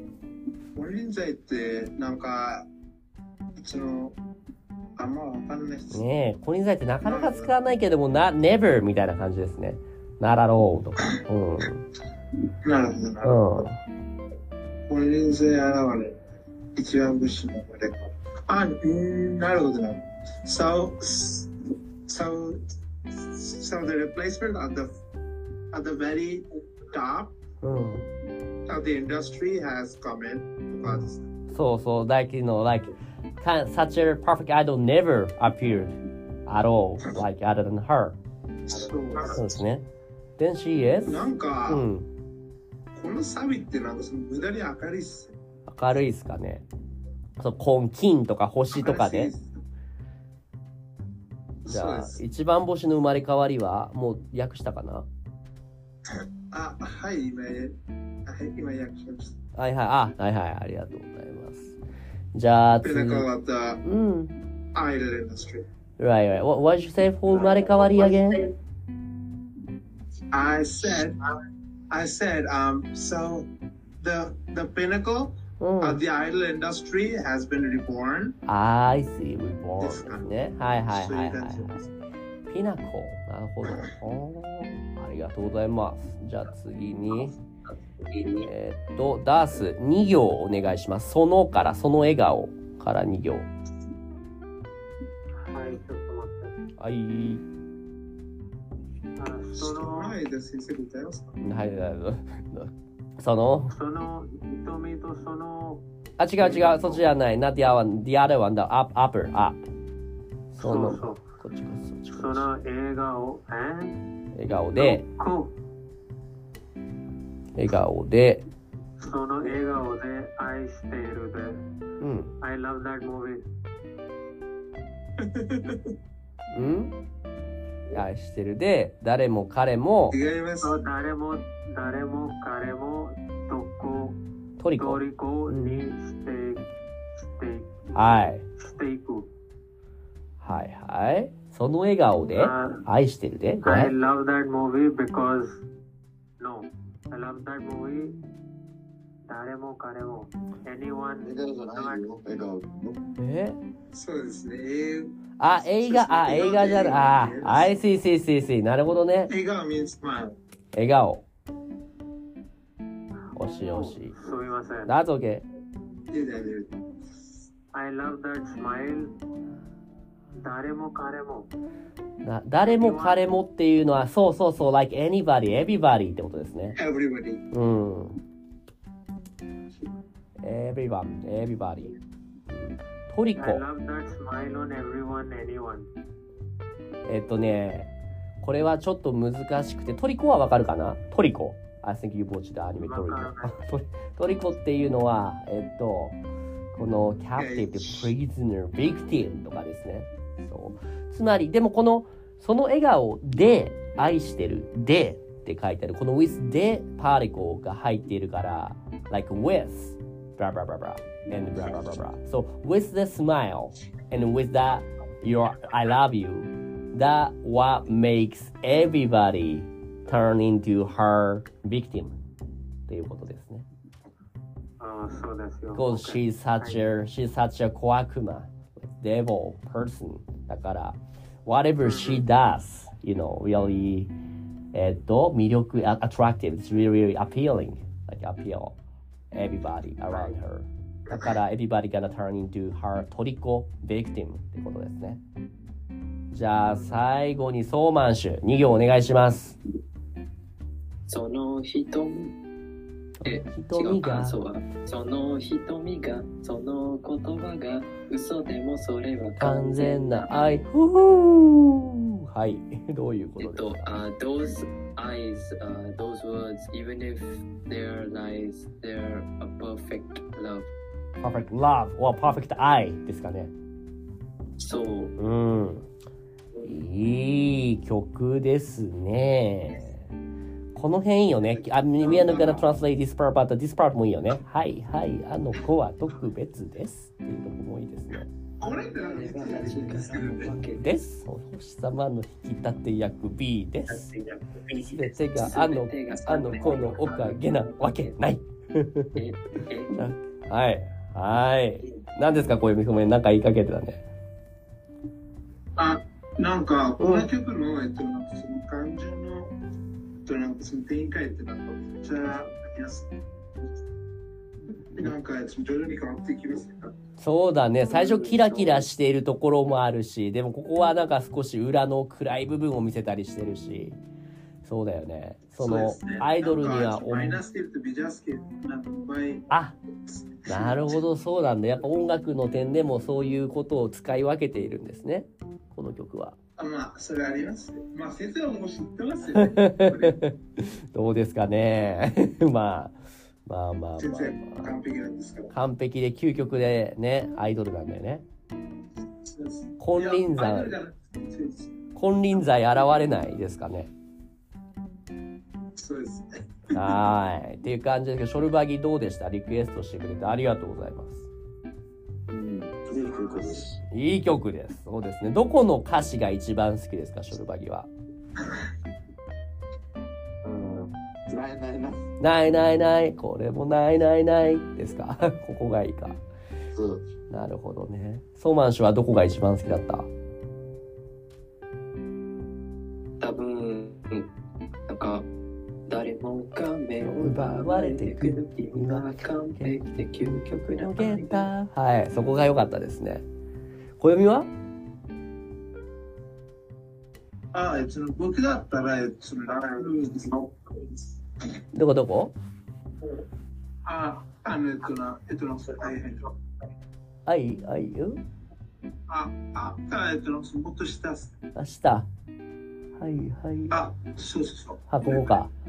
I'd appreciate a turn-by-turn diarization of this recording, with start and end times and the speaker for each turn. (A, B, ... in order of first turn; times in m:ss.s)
0:00.7-0:02.6 A
0:03.6-0:04.2 A
0:05.0-0:06.0 A
0:05.9-0:11.8 B
0:07.0-0:07.5 A
0:12.6-0:13.6 A
0:13.2-0:13.8 B
0:14.9-0:16.2 A
0:16.8-0:21.5 A
0:22.0-0:24.9 A
0:25.7-0:27.4 A
0:27.6-0:28.0 B
0:28.7-0:31.2 A
0:30.8-0:38.2 B
0:38.6-0:39.5 A
0:39.2-0:39.8 B
0:40.4-0:42.1 B
0:41.0-0:41.8 A
0:42.9-0:45.3 A
0:45.7-0:46.6 B
0:47.4-0:49.3 B
0:48.7-0:49.6 A
0:51.6-0:52.2 A
0:51.6-0:55.1 B
0:56.5-0:57.7 A
0:58.2-0:59.3 A
0:59.6-1:01.8 B
1:02.3-1:03.2 B
1:02.8-1:03.8 A
1:03.8-1:04.3 B
1:04.7-1:05.6 A
1:06.0-1:08.5 B
1:10.3-1:11.2 A
1:11.9-1:13.5 A
1:14.0-1:18.4 A
1:15.6-1:16.0 B
1:18.4-1:21.8 B
1:19.8-1:20.3 A
1:20.9-1:21.9 A
1:22.5-1:27.3 B
1:28.4-1:33.5 B
1:35.4-1:36.5 C
1:36.8-1:37.4 B
1:39.2-1:40.2 C
1:39.6-1:41.4 A
1:41.4-1:43.7 B
1:43.7-1:45.8 C
1:46.2-1:49.6 B
1:46.4-1:47.0 C
1:50.5-1:52.5 B
1:50.6-1:51.2 C
1:52.1-1:53.9 C
1:54.3-1:55.0 B
1:54.7-1:55.5 C
1:57.6-1:58.4 B
1:59.0-2:01.6 C
2:02.0-2:02.3 B
2:02.4-2:03.4 C
2:05.2-2:05.9 A
2:06.5-2:06.9 B
2:07.9-2:10.2 B
2:10.1-2:10.8 A
2:10.6-2:14.2 C
2:14.6-2:15.8 B
2:14.8-2:16.6 C
2:17.3-2:17.8 C
2:17.9-2:18.4 B
2:18.6-2:19.3 C
2:20.4-2:23.9 B
2:22.4-2:22.8 C
2:23.6-2:25.6 C
2:26.4-2:28.2 C
2:29.3-2:32.1 C
2:31.2-2:33.0 D
2:33.2-2:33.6 B
2:33.9-2:37.7 A
2:35.4-2:39.3 B
2:39.3-2:40.3 A
2:40.7-2:41.2 B
2:43.3-2:44.1 B
2:43.5-2:44.9 C
2:44.8-2:45.4 B
2:46.1-2:46.7 A
2:47.7-2:49.1 C
2:50.3-2:51.5 C
2:52.2-2:56.8 B
2:52.6-2:53.2 C
2:56.8-2:57.4 A
2:57.5-2:58.2 B
3:00.4-3:01.9 B
3:02.5-3:03.6 B
3:03.4-3:05.9 C
3:07.1-3:07.9 B
3:08.4-3:16.2 B
3:12.8-3:13.6 C
3:16.7-3:42.1 B
3:17.4-3:18.1 A
3:42.9-3:43.6 B
3:44.8-3:46.8 C
3:45.7-3:54.1 B
3:51.8-3:52.2 C
3:54.7-3:58.8 B
3:59.3-4:05.2 B
4:06.3-4:09.6 B
4:11.1-4:12.3 E
4:13.2-4:14.4 B
4:13.2-4:20.5 E
4:19.4-4:23.9 B
4:23.4-4:30.7 E
4:31.2-4:33.5 B
4:34.6-4:35.1 E
4:35.2-4:35.8 B
4:36.6-4:40.0 B
4:40.7-4:48.3 B
4:42.0-4:42.7 A
4:48.6-4:50.6 A
4:48.6-4:50.8 E
4:50.8-4:54.1 B
4:53.9-4:58.2 E
4:54.8-4:59.1 B
4:59.2-5:00.0 E
4:59.9-5:04.0 B
5:05.8-5:09.5 A
5:07.0-5:07.3 B
5:10.2-5:13.1 A
5:14.9-5:16.9 A
5:17.2-5:24.0 B
5:17.9-5:18.8 E
5:24.6-5:27.4 B
5:25.6-5:29.5 A
5:29.5-5:29.8 B
5:30.0-5:31.0 A
5:30.5-5:36.4 B
5:36.6-5:40.2 A
5:39.3-5:44.8 B
5:44.0-5:45.5 A
5:45.5-5:48.2 B
5:49.2-5:51.7 A
5:49.8-5:50.8 B
5:51.9-5:53.9 B
5:55.8-5:56.9 A
5:56.7-6:01.3 B
6:02.3-6:03.8 D
6:03.0-6:03.6 A
6:03.9-6:07.9 B
6:10.4-6:12.0 D
6:12.2-6:16.2 B
6:16.7-6:17.0 D
6:17.3-6:20.1 B
6:23.2-6:24.2 E
6:24.9-6:25.2 E
6:25.9-6:31.5 E
6:27.0-6:33.2 B
6:34.0-6:34.5 B
6:37.5-6:41.0 A
6:41.7-6:42.3 B
6:43.8-6:46.4 A
6:47.2-6:48.2 B
6:49.1-6:51.3 A
6:51.5-6:52.1 B
6:53.0-6:53.8 B
6:53.7-6:55.4 A
6:54.9-6:55.5 B